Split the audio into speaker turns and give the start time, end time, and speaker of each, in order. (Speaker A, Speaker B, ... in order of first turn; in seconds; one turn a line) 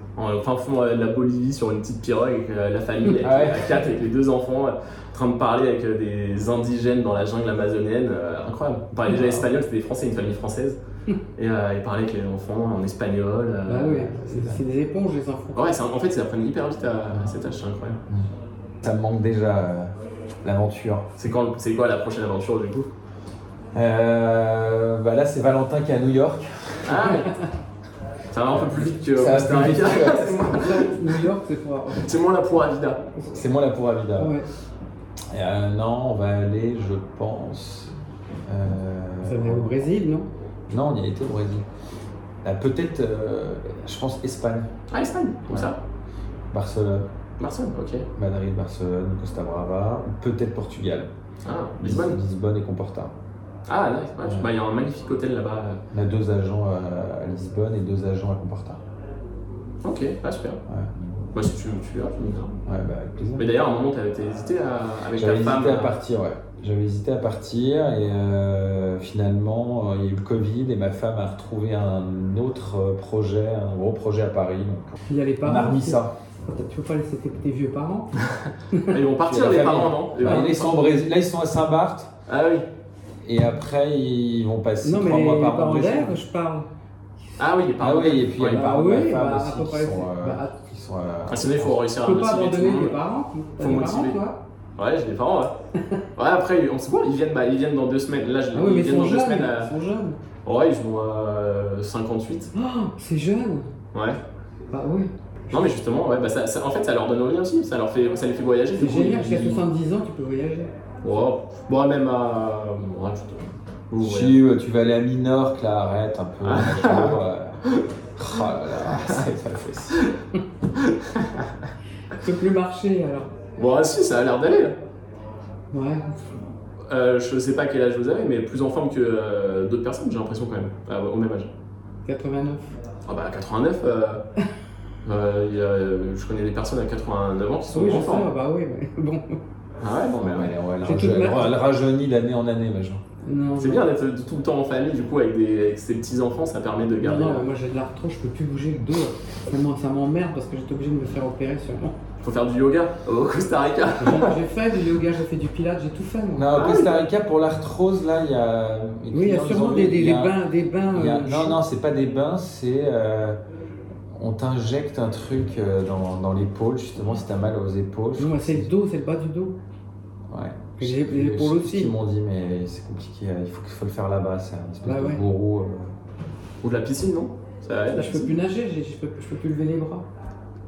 Speaker A: 0.2-10.8
Speaker B: 3.2-3.7
Speaker B: 9.1-9.4
Speaker A: 11.4-14.2
Speaker C: 13.7-15.8
Speaker B: 14.3-14.6
Speaker A: 15.6-18.0
Speaker B: 18.8-19.9
Speaker B: 20.4-21.1
Speaker A: 21.2-22.9
Speaker B: 23.7-27.1
Speaker A: 26.8-27.4
Speaker A: 28.3-31.2
Speaker B: 28.5-30.4
Speaker C: 29.7-32.2
Speaker A: 31.9-33.0
Speaker B: 33.3-34.4
Speaker C: 34.2-34.5
Speaker B: 35.3-37.9
Speaker B: 38.5-39.9
Speaker C: 39.2-40.3
Speaker B: 40.7-41.7
Speaker B: 42.4-44.7
Speaker A: 44.9-45.8
Speaker B: 45.5-45.7
Speaker B: 46.5-47.1
Speaker A: 47.4-48.1
Speaker B: 48.1-51.1
Speaker A: 51.4-52.2
Speaker B: 51.8-53.1
Speaker A: 53.7-55.8
Speaker B: 54.2-54.5
Speaker B: 55.9-58.8
Speaker A: 59.8-60.6
Speaker B: 60.7-61.1
Speaker A: 61.3-62.6
Speaker B: 62.7-63.5
Speaker A: 63.4-66.0
Speaker B: 65.1-76.1
Speaker C: 75.1-78.2
Speaker A: 78.3-80.8
Speaker C: 78.7-79.5
Speaker B: 79.2-82.1
Speaker C: 80.2-80.5
Speaker A: 82.3-82.7
Speaker B: 83.2-86.2
Speaker C: 84.8-86.7
Speaker A: 87.4-88.6
Speaker B: 87.8-91.8
Speaker C: 88.4-90.5
Speaker A: 91.3-93.0
Speaker C: 92.0-94.4
Speaker A: 93.6-94.2
Speaker A: 94.8-95.5
Speaker A: 96.2-99.7
Speaker C: 98.5-100.2
Speaker A: 100.5-102.5
Speaker C: 102.5-103.7
Speaker A: 103.9-104.2
Speaker C: 104.7-105.7
Speaker A: 105.5-109.7
Speaker C: 108.8-110.7
Speaker A: 111.0-114.4
Speaker B: 114.0-117.6
Speaker A: 116.4-117.9
Speaker B: 118.2-120.0
Speaker A: 119.0-119.2
Speaker A: 120.7-121.5
Speaker C: 122.1-123.3
Speaker A: 123.6-124.8
Speaker C: 125.7-126.2
Speaker A: 126.9-131.5
Speaker C: 132.1-132.8
Speaker A: 133.1-134.2
Speaker A: 135.0-138.3
Speaker C: 137.7-139.4
Speaker A: 139.8-140.5
Speaker B: 140.1-143.0
Speaker C: 140.8-141.6
Speaker C: 143.2-143.9
Speaker A: 143.6-147.4
Speaker C: 147.0-151.9
Speaker A: 152.2-154.4
Speaker C: 154.0-156.8
Speaker B: 156.3-163.4
Speaker A: 156.5-157.0
Speaker C: 159.1-161.6
Speaker B: 164.1-168.7
Speaker C: 168.2-169.5
Speaker B: 170.3-175.9
Speaker C: 170.8-171.9
Speaker C: 174.8-175.2
Speaker A: 176.6-178.3
Speaker C: 177.9-180.1